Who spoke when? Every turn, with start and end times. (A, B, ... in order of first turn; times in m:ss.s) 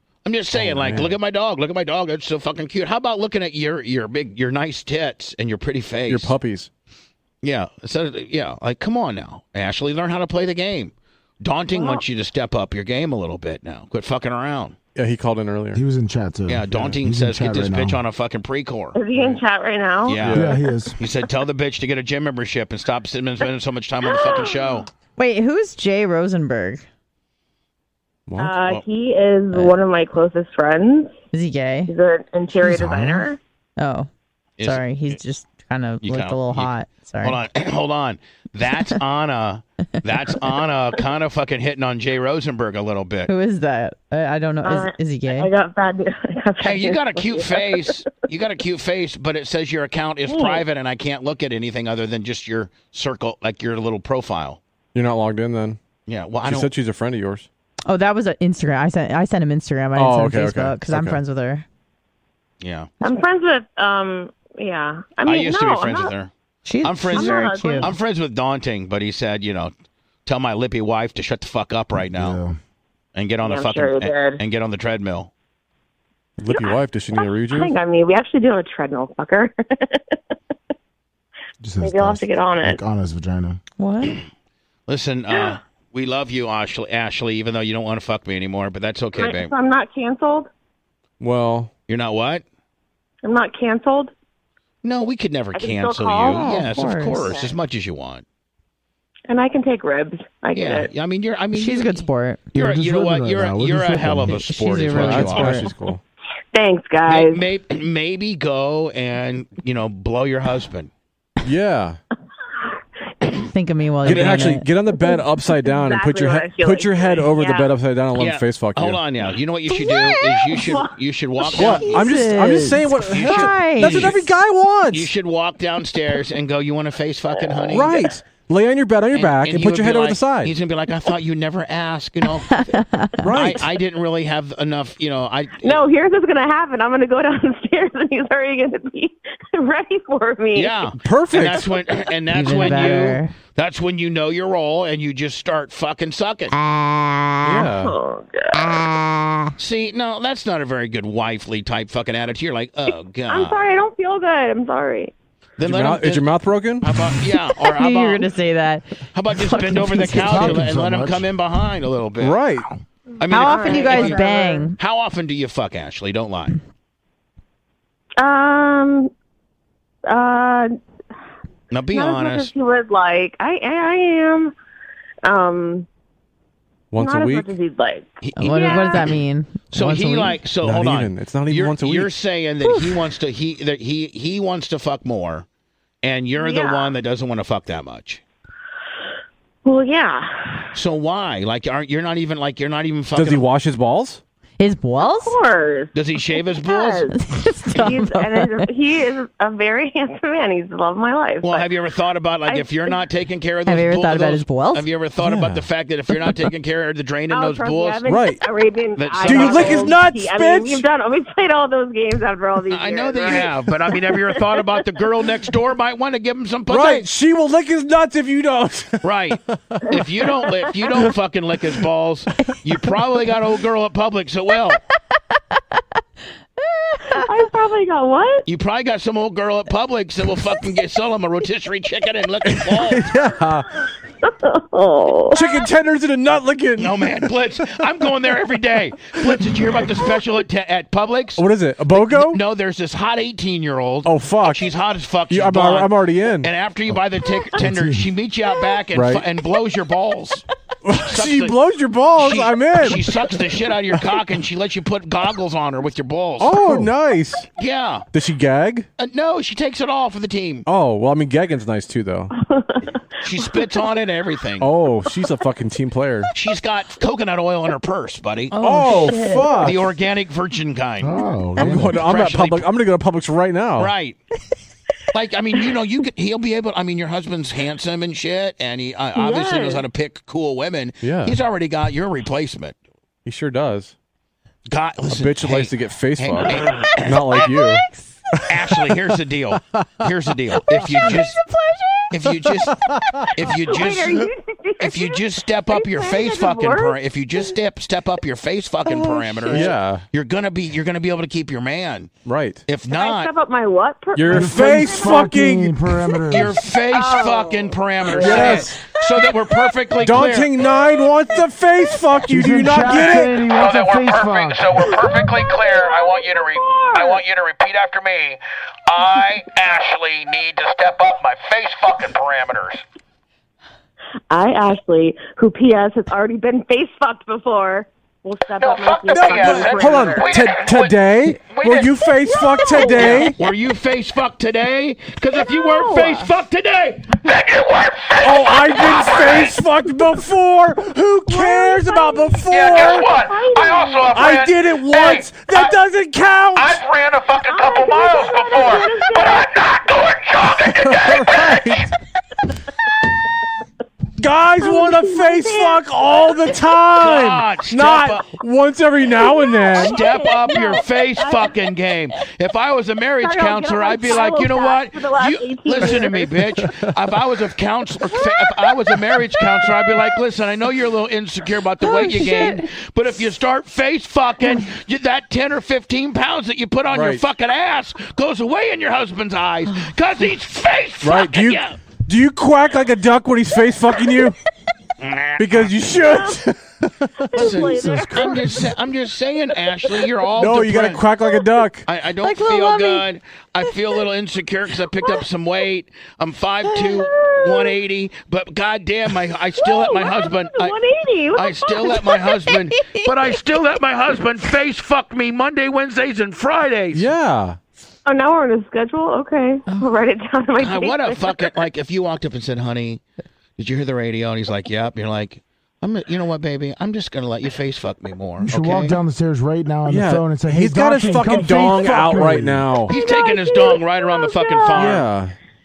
0:00.2-0:06.3 A
0:00.5-0:01.2 B
0:06.1-0:06.7 B
0:07.4-0:14.8 A
0:11.7-0:12.0 C
0:15.0-0:15.8 B
0:15.7-0:18.0 D
0:16.5-0:19.0 A
0:18.9-0:20.7 C
0:20.0-0:24.9 A
0:20.2-0:20.6 B
0:20.3-0:21.0 D
0:24.0-0:24.7 C
0:25.2-0:26.8 E
0:28.3-0:28.6 B
0:28.4-0:31.1 C
0:29.5-0:29.8 E
0:31.3-0:31.9 E
0:31.9-0:33.4 C
0:32.6-0:33.3 D
0:33.8-0:34.1 E
0:34.6-0:35.2 A
0:34.6-0:37.4 E
0:36.0-0:43.3 A
0:43.3-0:45.5 E
0:44.6-0:47.9 C
0:46.6-0:54.6 A
0:50.3-0:50.6 C
0:54.9-0:55.8 B
0:56.1-0:56.7 A
0:56.4-0:57.5 B
0:57.9-1:01.6 E
1:00.0-1:01.2 B
1:02.6-1:02.9 A
1:03.0-1:06.1 C
1:05.2-1:06.3 A
1:06.6-1:07.9 E
1:06.8-1:09.7 A
1:07.1-1:07.9 C
1:10.2-1:12.4 A
1:12.1-1:12.6 D
1:13.2-1:15.3 A
1:13.4-1:14.4 C
1:16.4-1:17.7 B
1:16.5-1:19.9 C
1:21.6-1:23.6 D
1:21.8-1:22.8 C
1:23.8-1:24.2 E
1:24.9-1:29.5 A
1:25.3-1:25.6 C
1:29.2-1:30.5 C
1:31.2-1:31.7 B
1:31.9-1:32.4 A
1:33.2-1:34.1 C
1:34.8-1:38.2 A
1:35.5-1:36.6 C
1:36.2-1:37.4 E
1:37.2-1:37.5 C
1:39.3-1:40.9 C
1:40.5-1:45.7 A
1:41.5-1:42.5 E
1:42.5-1:44.4 D
1:44.2-1:45.7 E
1:44.9-1:46.0 B
1:46.5-1:47.4 C
1:47.1-1:50.9 A
1:51.4-1:52.0 B
1:53.5-1:54.7 E
1:54.0-1:59.0 B
1:54.0-1:54.5 A
1:55.0-1:57.7 C
1:58.2-2:02.1 A
1:59.7-2:00.6 E
2:00.6-2:00.9 C
2:01.5-2:01.9 C
2:01.6-2:05.1 B
2:01.7-2:04.2 E
2:03.0-2:04.2 A
2:04.9-2:08.0 A
2:07.7-2:10.5 B
2:09.1-2:12.6 A
2:12.5-2:13.3 E
2:13.2-2:13.6 B
2:13.3-2:15.8 A
2:15.6-2:20.8 C
2:20.5-2:26.5 A
2:21.0-2:21.6 B
2:22.3-2:23.3 E
2:27.4-2:27.9 B
2:27.6-2:29.0 C
2:29.6-2:33.6 A
2:33.3-2:35.1 C
2:35.6-2:38.3 A
2:35.6-2:36.9 B
2:37.6-2:40.7 E
2:39.1-2:42.4 A
2:40.2-2:41.3 D
2:42.2-2:42.7 B
2:43.2-2:46.6 A
2:43.3-2:44.8 E
2:43.3-2:44.7 C
2:48.2-2:49.1 C
2:50.1-2:50.7 C
2:51.7-2:52.5 A
2:51.9-2:54.5 C
2:55.2-2:55.8 C
2:56.9-2:57.5 B
2:56.9-2:59.0 C
2:58.2-2:59.2 A
2:58.4-3:00.4 E
2:59.7-3:05.4 A
3:00.6-3:02.1 B
3:02.6-3:02.9 C
3:06.0-3:08.2 A
3:06.4-3:06.9 C
3:09.6-3:10.7 C
3:10.7-3:13.4 A
3:13.1-3:14.2 B
3:14.6-3:15.4 E
3:15.0-3:15.9 C
3:15.9-3:17.1 A
3:16.5-3:17.1 C
3:17.1-3:18.7 E
3:17.7-3:21.7 C
3:21.4-3:28.0 A
3:22.4-3:23.0 C
3:23.7-3:24.9 E
3:25.2-3:25.6 B
3:27.3-3:34.8 C
3:28.0-3:28.4 B
3:29.0-3:29.9 A
3:29.2-3:30.8 B
3:32.7-3:37.1 A
3:36.7-3:39.0 B
3:39.0-3:44.8 A
3:46.8-3:47.2 E
3:47.2-3:48.4 C
3:48.4-3:53.0 A
3:52.5-3:53.7 B
3:54.3-3:55.4 C
3:55.3-3:57.3 B
3:56.8-4:01.4 A
4:01.4-4:02.4 B
4:02.1-4:05.9 A
4:04.0-4:04.7 B
4:05.3-4:06.5 B
4:06.4-4:10.4 A
4:07.6-4:08.1 D
4:08.9-4:09.2 B
4:10.8-4:13.1 B
4:11.0-4:11.6 A
4:12.2-4:16.9 A
4:16.4-4:17.4 B
4:17.6-4:18.1 A
4:18.1-4:18.9 B
4:19.0-4:20.6 A
4:20.6-4:22.3 B
4:22.3-4:23.8 C
4:23.2-4:24.7 A
4:24.6-4:26.3 B
4:26.3-4:28.6 A
4:28.5-4:29.6 E
4:28.6-4:29.8 B
4:29.1-4:29.7 C
4:29.6-4:32.7 A
4:31.0-4:32.0 D
4:31.6-4:33.9 B
4:33.8-4:34.2 A
4:35.1-4:42.8 A
4:39.1-4:39.8 C
4:41.0-4:41.4 B
4:43.2-4:43.9 B
4:44.7-4:47.5 A
4:45.1-4:47.8 B
4:47.6-4:48.0 E
4:48.5-4:51.4 A
4:52.1-4:52.8 A
4:53.3-4:54.2 A
4:53.4-4:57.5 C
4:54.8-5:02.1 A
4:58.9-5:00.0 B
5:02.2-5:02.6 B
5:02.6-5:03.3 A
5:02.8-5:05.3 C
5:04.2-5:05.8 B
5:04.3-5:06.6 D
5:06.3-5:10.5 A
5:06.9-5:08.7 C
5:08.1-5:08.8 B
5:10.0-5:13.4 B
5:10.7-5:11.1 C
5:12.2-5:15.0 D
5:12.9-5:22.8 A
5:14.9-5:17.2 C
5:24.3-5:30.4 C
5:28.6-5:32.0 A
5:29.1-5:33.4 B
5:32.2-5:33.3 C
5:32.8-5:39.6 A
5:35.3-5:36.2 C
5:38.2-5:43.1 B
5:41.3-5:42.5 C
5:42.5-5:45.7 A
5:43.2-5:44.2 C
5:44.1-5:46.8 B
5:46.5-5:51.5 A
5:47.4-5:49.5 C
5:50.6-5:51.9 B
5:54.2-6:00.0 B
5:54.6-5:56.7 C
5:57.0-5:58.3 A
5:59.1-6:01.7 C
5:59.8-6:21.8 A
6:03.2-6:06.3 C
6:05.8-6:06.9 B
6:11.8-6:12.6 E
6:16.9-6:17.2 B
6:21.0-6:24.4 B
6:25.0-6:25.7 A
6:25.4-6:26.6 B
6:26.0-6:26.4 C
6:27.3-6:28.6 C
6:27.4-6:28.5 D
6:27.4-6:31.0 A
6:30.4-6:31.8 B
6:31.8-6:40.8 A
6:32.2-6:33.0 E
6:37.0-6:37.7 C
6:39.6-6:42.0 C
6:41.3-6:47.0 A
6:42.1-6:43.0 E
6:46.9-6:47.6 B
6:48.0-6:51.5 C
6:49.6-6:49.9 E
6:50.6-6:53.0 A
6:53.6-6:59.0 A
6:58.4-7:02.7 D
6:59.9-7:02.9 B
7:02.9-7:05.0 A
7:02.9-7:05.0 C
7:04.7-7:05.3 B